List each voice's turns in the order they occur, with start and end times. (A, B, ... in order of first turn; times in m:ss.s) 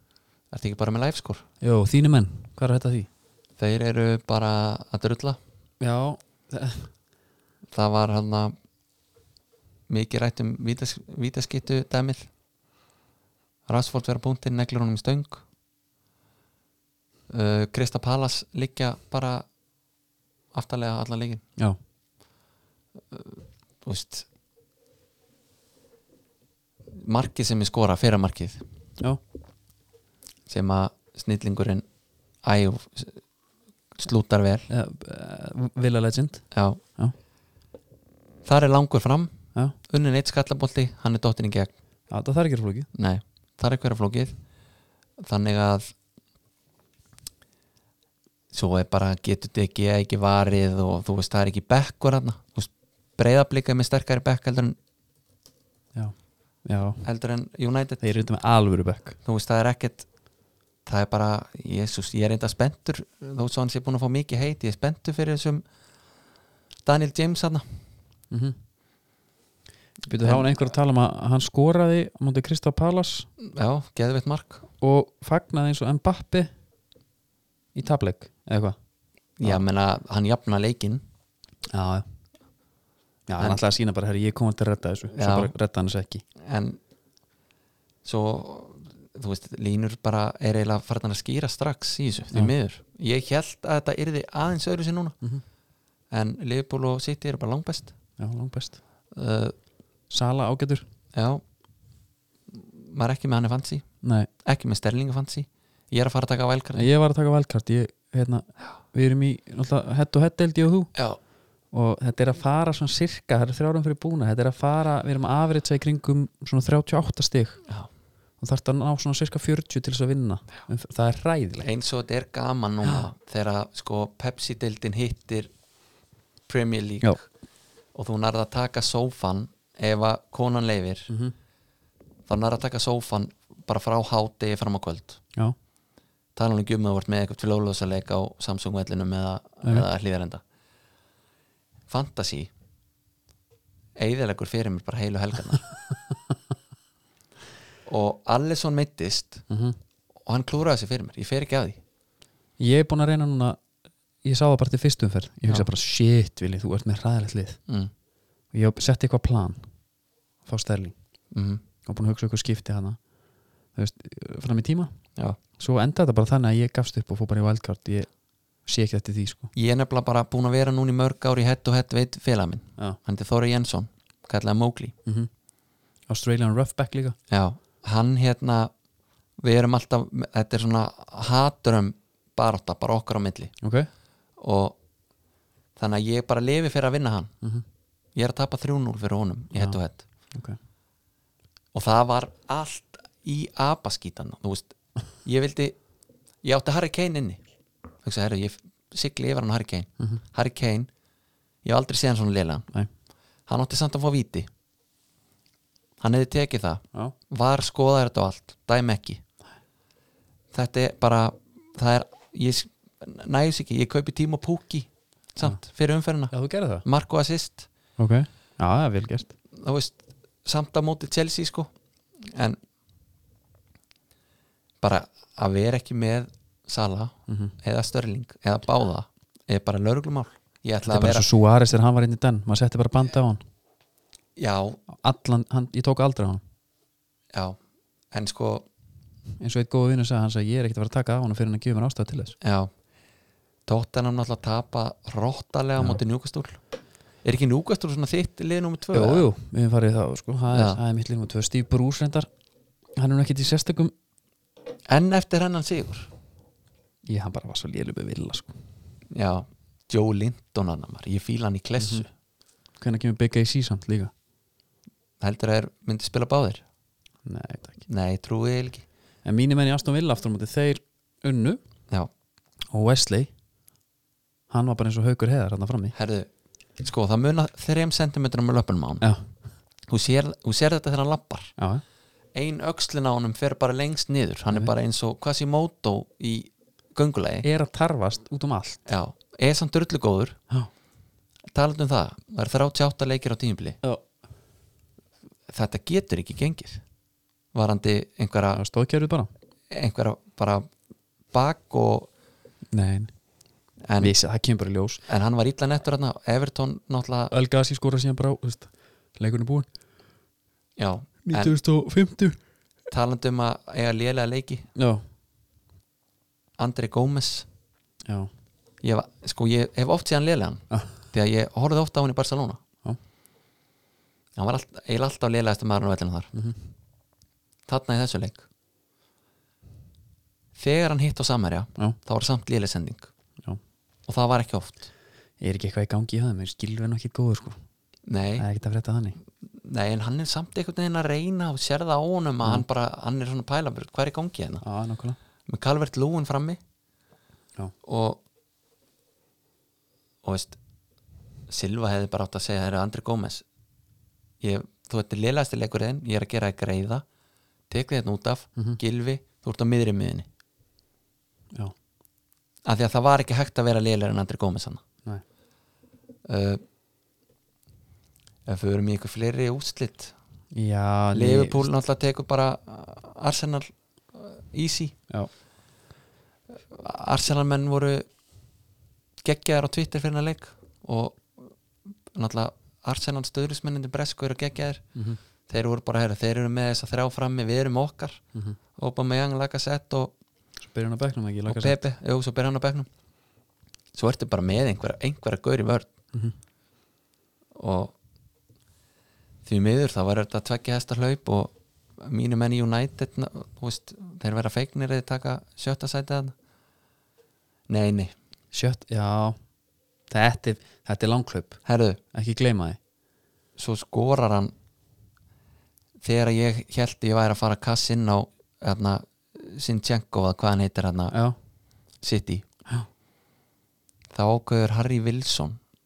0:00.5-0:01.4 A
0:01.6-0:03.1 B
0:03.6-0:05.4 A
0:05.8-0:06.9 B
0:07.7-0:08.6 A
0:09.9-0:12.3 A
0:13.7-0:15.4 A
0:17.3-0:19.5 A
0:20.5-0:21.4 A
0:23.1-0:24.3 A
0:27.0-0:28.6 A
0:30.5-0:31.8 A
0:32.4-0:33.2 A
0:34.0-0:34.7 A
0:34.7-0:37.2 B
0:36.5-0:36.8 A
0:38.4-0:39.4 A
0:39.9-0:41.7 A
0:42.1-0:42.9 B
0:43.0-0:44.4 A
0:45.2-0:45.9 A
0:48.5-0:54.8 A
0:56.0-0:57.0 B
0:57.0-0:58.0 A
0:58.0-0:59.2 B
0:59.2-1:00.1 A
1:00.9-1:05.6 A
1:06.8-1:07.7 A
1:08.3-1:08.6 B
1:10.1-1:13.3 B
1:10.2-1:10.5 A
1:13.4-1:14.6 A
1:14.8-1:16.5 B
1:17.8-1:18.8 B
1:19.4-1:21.0 A
1:21.7-1:22.1 B
1:23.3-1:26.2 B
1:25.2-1:25.5 A
1:26.4-1:26.8 A
1:28.0-1:35.2 A
1:36.1-1:37.9 A
1:38.2-1:38.8 B
1:39.1-1:39.6 A
1:40.1-1:40.8 B
1:41.1-1:41.4 A
1:42.5-1:43.8 A
1:44.0-1:44.3 B
1:44.4-1:46.9 A
1:46.8-1:50.9 B
1:51.7-1:57.6 B
1:58.4-2:01.7 B
2:01.6-2:05.5 A
2:06.5-2:07.3 A
2:07.9-2:11.1 A
2:11.1-2:11.3 B
2:12.3-2:15.2 A
2:16.4-2:20.4 A
2:21.9-2:22.5 A
2:24.0-2:25.7 A
2:27.9-2:29.4 A
2:29.5-2:29.8 B
2:30.3-2:31.8 A
2:32.6-2:33.6 B
2:34.2-2:37.6 B
2:38.5-2:39.7 B
2:40.4-2:41.0 B
2:41.3-2:41.6 A
2:41.9-2:43.0 B
2:43.8-2:44.9 B
2:45.6-2:48.1 B
2:48.7-2:49.5 B
2:49.5-2:55.0 A
2:55.0-2:55.3 B
2:56.1-2:57.2 B
2:57.3-2:58.7 A
2:59.4-3:03.5 A
3:03.6-3:03.9 B
3:04.4-3:04.8 A
3:05.8-3:07.3 A
3:08.2-3:10.0 A
3:10.3-3:10.6 B
3:11.7-3:15.8 A
3:16.4-3:17.4 A
3:18.0-3:20.9 A
3:21.6-3:22.7 A
3:23.5-3:24.5 A
3:26.0-3:29.2 A
3:30.5-3:36.3 A
3:36.3-3:36.8 B
3:36.8-3:37.7 A
3:38.0-3:39.3 B
3:39.5-3:41.7 A
3:42.2-3:42.6 A
3:44.8-3:51.3 A
3:47.3-3:47.5 B
3:50.8-3:53.4 B
3:54.4-3:54.8 A
3:54.9-3:56.4 B
3:57.3-3:57.6 A
3:58.1-3:58.7 A
3:59.4-4:02.4 B
4:02.4-4:02.7 A
4:03.7-4:06.6 A
4:07.2-4:09.3 A
4:08.9-4:12.3 B
4:10.5-4:10.8 A
4:13.0-4:13.9 B
4:14.9-4:16.1 A
4:17.1-4:18.5 B
4:19.1-4:22.1 A
4:21.8-4:22.0 B
4:22.8-4:24.1 B
4:25.2-4:26.6 A
4:27.2-4:27.8 B
4:27.9-4:28.8 A
4:29.2-4:31.6 B
4:32.7-4:33.3 B
4:34.5-4:35.9 B
4:35.9-4:36.3 A
4:36.8-4:39.1 A
4:39.0-4:39.3 B
4:39.9-4:41.5 A
4:41.6-4:41.8 B
4:42.4-4:47.5 A
4:47.4-4:48.8 B
4:48.9-4:50.4 A
4:51.5-4:53.8 A
4:55.5-4:56.8 A
4:57.5-4:58.6 A
4:58.5-4:59.3 B
4:59.7-5:00.7 A
5:01.3-5:02.1 A
5:02.7-5:03.1 B
5:03.8-5:04.2 A
5:04.0-5:05.0 B
5:05.1-5:07.3 A
5:07.3-5:09.7 B
5:10.8-5:11.6 A
5:11.2-5:12.4 B
5:12.9-5:14.7 A
5:14.8-5:15.0 B
5:16.6-5:17.5 A
5:18.0-5:18.3 B
5:18.8-5:22.6 A
5:24.4-5:26.3 A
5:26.3-5:26.6 B
5:27.7-5:28.4 A
5:30.6-5:33.1 A
5:34.1-5:34.9 A
5:35.4-5:37.6 B
5:38.1-5:38.5 A
5:38.4-5:39.2 B
5:39.6-5:44.6 A
5:44.6-5:45.2 B
5:45.5-5:46.6 A
5:47.8-5:48.2 A
5:50.2-5:50.6 A
5:51.5-5:53.4 A
5:54.4-5:57.0 A
5:57.7-6:00.3 A
6:02.6-6:04.8 A
6:06.3-6:06.6 A
6:08.5-6:10.1 A
6:10.5-6:11.7 B
6:11.1-6:15.0 A
6:16.7-6:18.0 A
6:19.2-6:21.6 A
6:22.1-6:24.9 A
6:25.5-6:28.2 A
6:28.8-6:30.1 A
6:30.6-6:31.8 B
6:31.5-6:32.9 A
6:34.0-6:35.9 A
6:37.6-6:37.9 A
6:39.4-6:46.3 A
6:47.7-6:48.1 A
6:48.5-6:49.4 B
6:50.1-6:51.6 B
6:51.6-6:52.0 A
6:52.1-6:52.8 B
6:53.6-6:54.5 A
6:56.0-7:01.2 A
7:01.1-7:01.4 B
7:02.0-7:02.5 A
7:04.1-7:05.6 A